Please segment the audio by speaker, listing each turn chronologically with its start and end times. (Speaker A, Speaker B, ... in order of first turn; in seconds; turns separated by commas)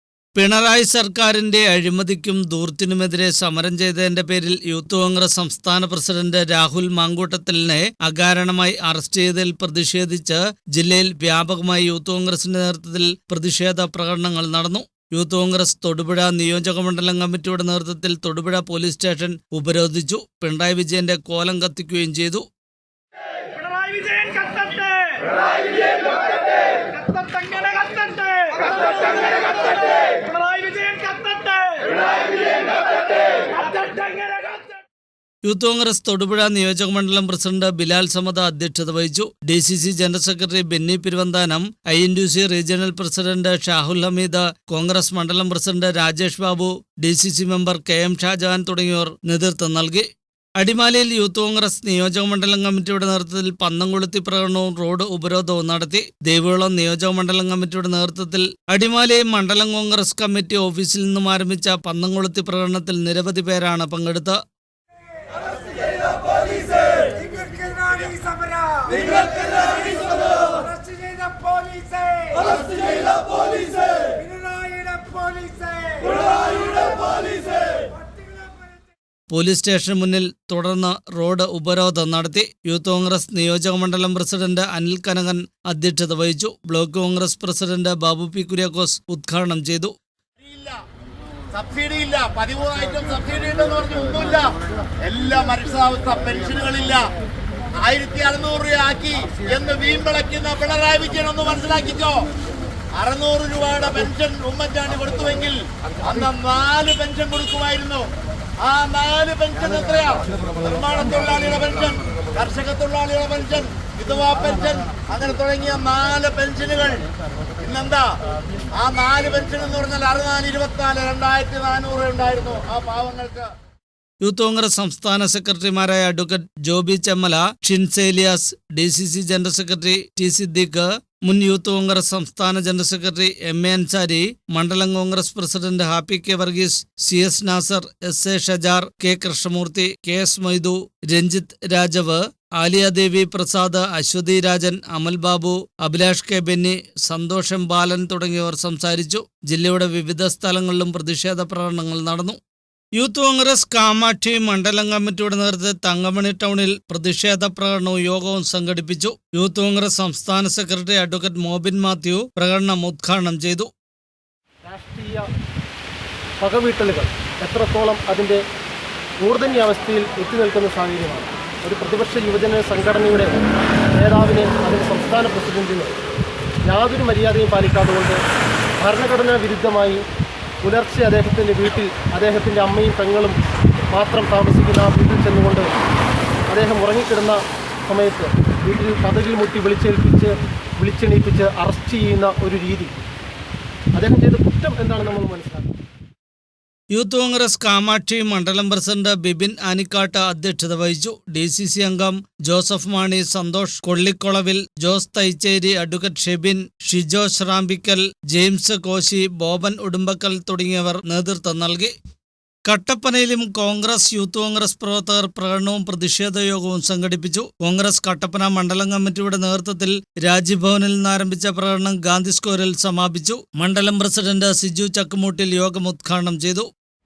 Speaker A: 0.4-22.4, Speaker B: 23.6-26.1, Speaker B: 26.7-32.8, Speaker B: 33.3-34.7, Speaker A: 35.4-50.1, Speaker A: 50.6-64.4, Speaker B: 67.2-72.5, Speaker B: 74.2-76.0, Speaker A: 79.3-89.9, Speaker C: 90.4-90.8, Speaker C: 91.5-94.4, Speaker C: 95.0-97.0, Speaker C: 97.8-102.3, Speaker C: 103.0-108.1, Speaker C: 108.6-117.0, Speaker C: 117.6-118.1, Speaker C: 118.7-123.5, Speaker A: 124.2-152.4, Speaker A: 153.0-163.7, Speaker D: 164.6-165.3, Speaker D: 166.4-168.4, Speaker D: 169.2-173.3, Speaker D: 173.9-176.0, Speaker D: 176.6-178.2, Speaker D: 178.8-180.1, Speaker D: 180.6-183.4, Speaker D: 183.9-185.7, Speaker D: 186.5-192.9, Speaker D: 193.9-195.7, Speaker A: 196.9-211.9, Speaker A: 212.7-226.7